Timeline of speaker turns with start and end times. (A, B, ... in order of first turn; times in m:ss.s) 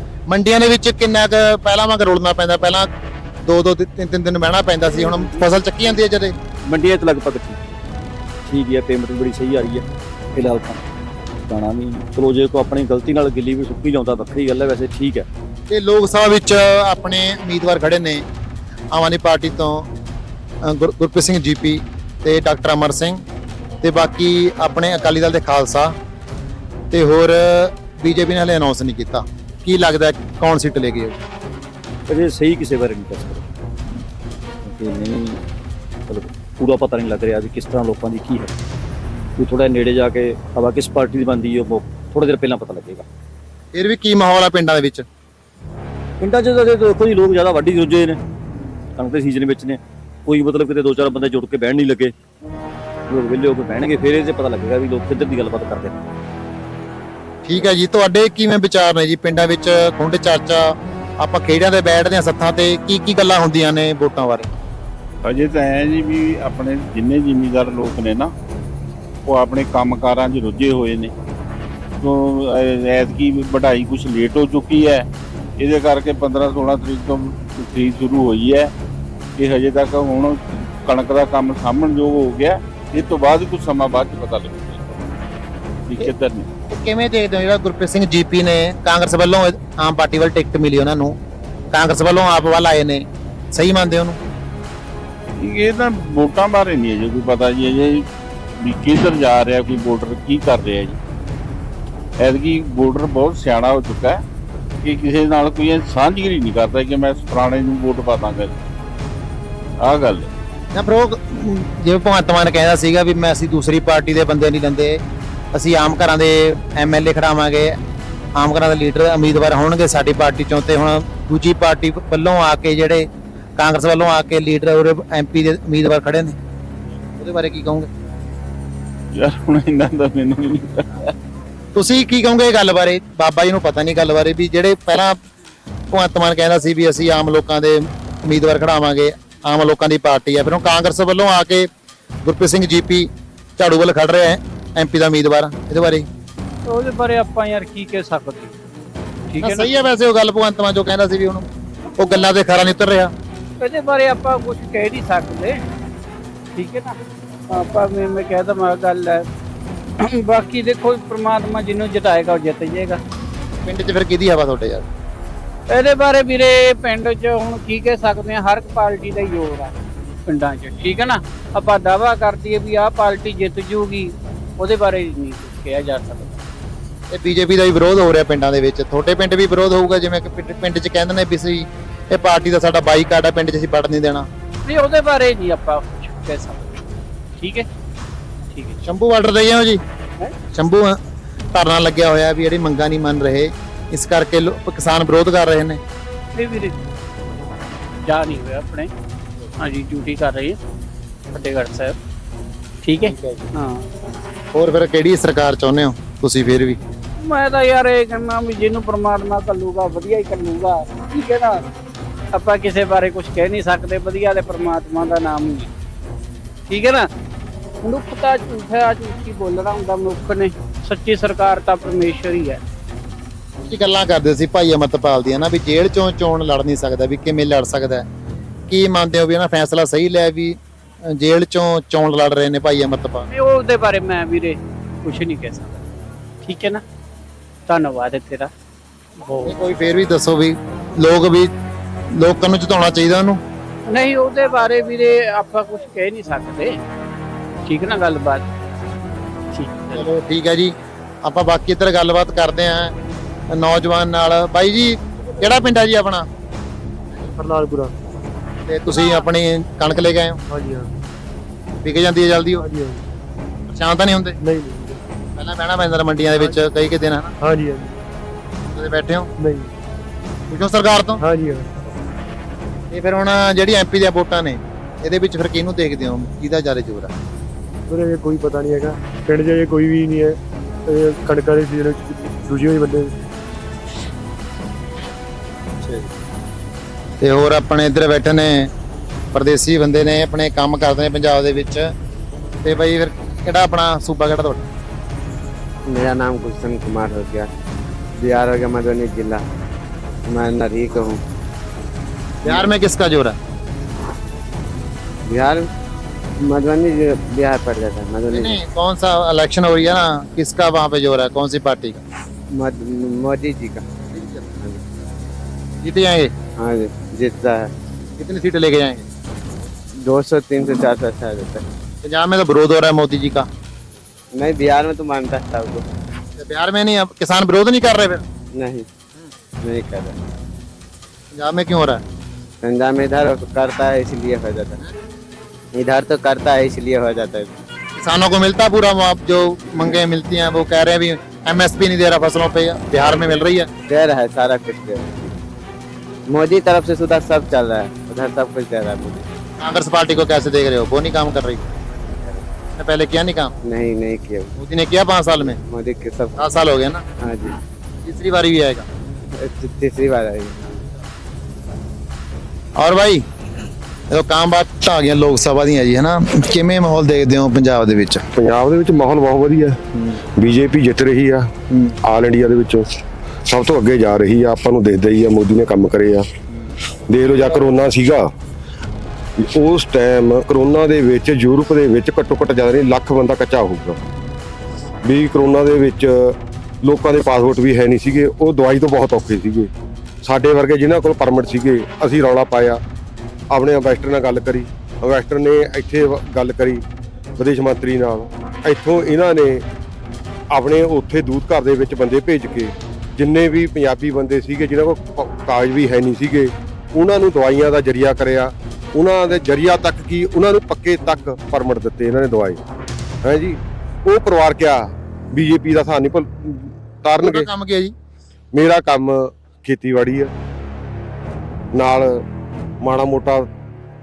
0:00.3-0:02.9 A
0:03.4-0:06.4 A
0:06.6-0:07.6 B
0:08.5-0:10.8 B
0:11.3-0:15.3 B
0:15.7-0:18.3 A
0:18.9-0:19.9 A
0:20.6-0:23.2 A
0:23.8-0:26.0 A
0:26.9-0:31.2 A
0:32.1-0:33.5 B
0:34.6-0:35.4 B
0:36.1-0:38.6 B
0:39.4-0:43.1 B
0:43.7-0:45.1 A
0:46.2-0:48.2 B
0:49.0-0:52.1 B
0:53.1-0:56.1 B
0:57.4-1:04.5 A
1:05.2-1:08.3 C
1:09.3-1:11.1 C
1:12.0-1:15.1 C
1:15.6-1:18.7 C
1:19.4-1:24.9 C
1:25.9-1:26.5 C
1:26.7-1:31.2 A
1:31.7-1:34.2 A
1:35.4-1:38.1 C
1:38.6-1:41.0 C
1:42.2-1:44.2 C
1:44.8-1:48.5 C
1:49.8-1:50.3 C
1:50.7-1:55.0 A
1:55.5-1:57.8 A
1:58.4-2:06.4 A
2:07.2-2:07.9 A
2:09.1-2:11.1 C
2:11.8-2:15.2 A
2:15.9-2:21.7 A
2:22.2-2:26.1 A
2:26.7-2:28.6 D
2:29.3-2:29.7 D
2:29.4-2:33.1 A
2:33.6-2:35.6 D
2:36.6-2:37.0 D
2:37.5-2:39.3 D
2:40.0-2:43.0 D
2:43.6-2:44.9 A
2:45.7-2:49.7 D
2:50.3-2:56.4 D
2:57.1-3:04.3 A
3:04.7-3:06.8 D
3:07.4-3:07.7 D
3:08.5-3:08.8 D
3:08.8-3:09.8 A
3:10.5-3:11.0 A
3:11.5-3:15.8 A
3:16.4-3:16.8 D
3:18.0-3:18.9 D
3:19.6-3:20.6 D
3:21.3-3:22.0 D
3:22.8-3:23.9 D
3:23.0-3:23.5 A
3:24.5-3:26.8 A
3:27.2-3:31.6 D
3:32.3-3:35.7 D
3:36.7-3:37.1 D
3:37.8-3:42.6 D
3:43.6-3:48.1 A
3:48.7-3:53.3 A
3:53.3-3:55.8 D
3:56.4-3:56.8 D
3:57.7-3:58.5 D
3:59.2-3:59.5 D
3:59.4-4:01.5 A
4:02.1-4:03.4 A
4:03.9-4:06.8 D
4:07.7-4:08.5 D
4:09.5-4:10.1 D
4:09.9-4:12.9 A
4:13.5-4:16.3 A
4:17.3-4:17.9 E
4:18.7-4:20.4 A
4:20.5-4:20.9 E
4:21.8-4:22.6 A
4:22.6-4:23.0 E
4:23.7-4:24.4 A
4:24.4-4:25.0 E
4:25.4-4:27.3 A
4:26.4-4:26.7 E
4:27.4-4:28.0 E
4:28.7-4:29.3 A
4:29.4-4:29.7 E
4:30.5-4:31.2 A
4:31.2-4:31.7 E
4:32.9-4:37.1 A
4:37.9-4:43.2 E
4:47.2-4:48.7 A
4:49.3-4:51.9 A
4:52.6-4:54.6 A
4:55.9-4:57.5 F
4:58.2-4:59.4 F
5:00.3-5:01.2 F
5:02.4-5:03.4 A
5:05.3-5:05.7 F
5:06.4-5:08.6 F
5:08.3-5:12.0 A
5:12.5-5:13.8 F
5:14.1-5:14.5 A
5:15.8-5:16.3 A
5:16.6-5:17.7 F
5:18.2-5:19.1 A
5:20.0-5:21.6 F
5:22.0-5:23.5 A
5:24.4-5:25.8 F
5:26.4-5:28.2 A
5:28.6-5:28.9 F
5:29.6-5:30.2 F
5:31.3-5:32.0 A
5:32.6-5:34.8 F
5:35.8-5:37.6 F
5:38.0-5:43.7 A
5:43.0-5:43.3 F
5:43.9-5:45.4 F
5:46.3-5:49.3 F
5:49.6-5:51.7 A
5:52.0-5:52.4 F
5:52.8-5:53.5 A
5:53.6-5:54.5 F
5:54.6-5:55.6 A
5:55.4-5:56.4 F
5:56.4-5:57.0 A
5:57.2-5:57.6 F
5:58.0-5:58.9 A
5:59.3-6:00.8 F
6:02.8-6:03.2 A
6:04.1-6:08.2 A
6:08.4-6:09.8 G
6:10.4-6:12.9 G
6:13.5-6:16.3 G
6:17.1-6:18.3 G
6:19.4-6:24.0 G
6:25.0-6:29.7 G
6:30.2-6:32.8 G
6:33.5-6:36.8 G
6:37.4-6:39.6 G
6:40.5-6:52.6 G
6:53.2-6:57.5 G
6:57.2-6:58.0 A
6:58.5-7:00.3 G
7:01.7-7:02.2 G
7:02.8-7:03.5 G